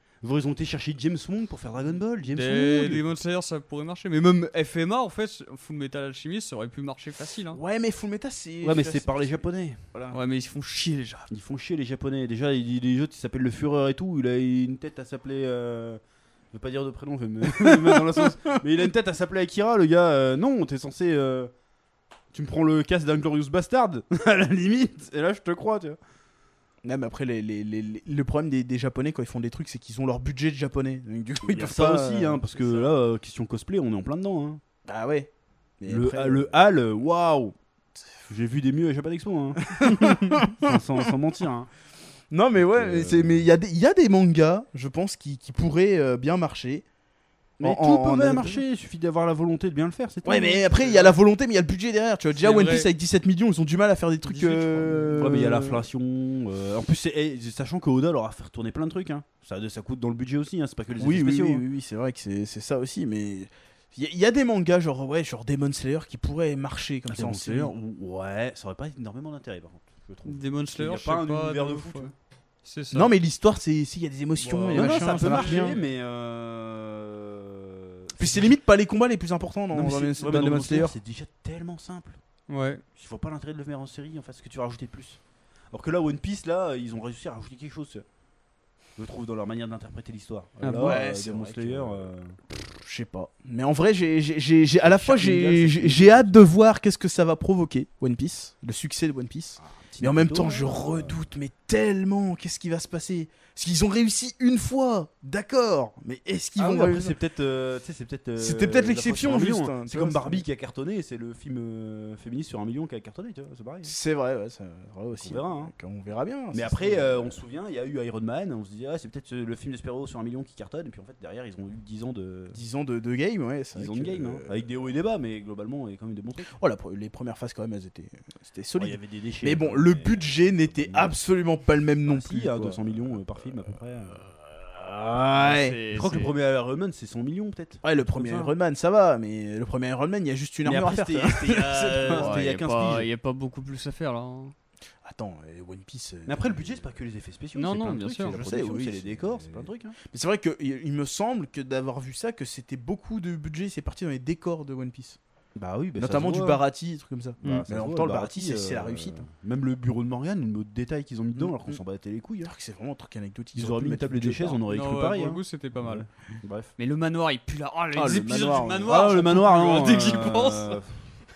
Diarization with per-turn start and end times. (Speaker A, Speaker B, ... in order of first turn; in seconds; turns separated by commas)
Speaker A: 0.2-3.1, Speaker B: 2.3-7.6, Speaker C: 7.5-9.4, Speaker A: 8.6-9.8, Speaker C: 9.9-10.2, Speaker B: 10.1-11.3, Speaker A: 11.3-16.0, Speaker A: 16.5-21.5, Speaker C: 17.5-18.3, Speaker A: 22.3-26.0, Speaker C: 26.8-32.4, Speaker A: 31.4-34.6, Speaker C: 34.9-36.5, Speaker A: 35.9-37.5, Speaker A: 38.3-41.7, Speaker C: 39.7-40.8, Speaker C: 42.3-46.9, Speaker A: 42.6-43.5, Speaker A: 47.6-51.2, Speaker C: 47.6-48.6, Speaker C: 50.2-55.8, Speaker B: 52.4-52.9, Speaker B: 54.3-55.2, Speaker A: 55.2-61.6, Speaker C: 61.0-67.8, Speaker A: 67.1-72.1, Speaker B: 70.2-72.1, Speaker B: 72.6-73.1, Speaker C: 72.9-75.8, Speaker B: 74.4-75.9, Speaker A: 74.7-78.6, Speaker C: 78.2-81.0, Speaker A: 79.7-82.2, Speaker B: 82.5-82.8, Speaker A: 83.0-85.2, Speaker A: 85.7-88.0, Speaker A: 89.0-92.4, Speaker B: 90.6-91.0, Speaker C: 90.8-107.2, Speaker A: 94.8-96.5, Speaker A: 99.6-101.2, Speaker A: 106.6-113.9, Speaker C: 108.4-110.5, Speaker C: 113.8-117.4, Speaker A: 115.2-115.7, Speaker A: 116.5-122.6, Speaker C: 122.5-124.7, Speaker A: 123.8-126.5, Speaker C: 126.5-133.2, Speaker A: 128.8-131.2, Speaker A: 132.1-134.3, Speaker C: 134.3-135.8, Speaker B: 135.3-136.3, Speaker A: 135.9-138.5, Speaker C: 137.8-142.5, Speaker A: 140.7-143.1, Speaker B: 141.5-144.6, Speaker C: 145.0-146.9, Speaker A: 146.3-150.0, Speaker B: 147.6-148.4, Speaker C: 148.3-155.2, Speaker A: 155.6-156.6, Speaker C: 156.0-159.2, Speaker A: 157.4-162.5, Speaker C: 161.4-161.8, Speaker C: 162.4-164.6, Speaker A: 163.6-166.7, Speaker B: 164.7-166.1, Speaker B: 166.8-170.8, Speaker C: 167.9-169.1, Speaker A: 168.9-171.0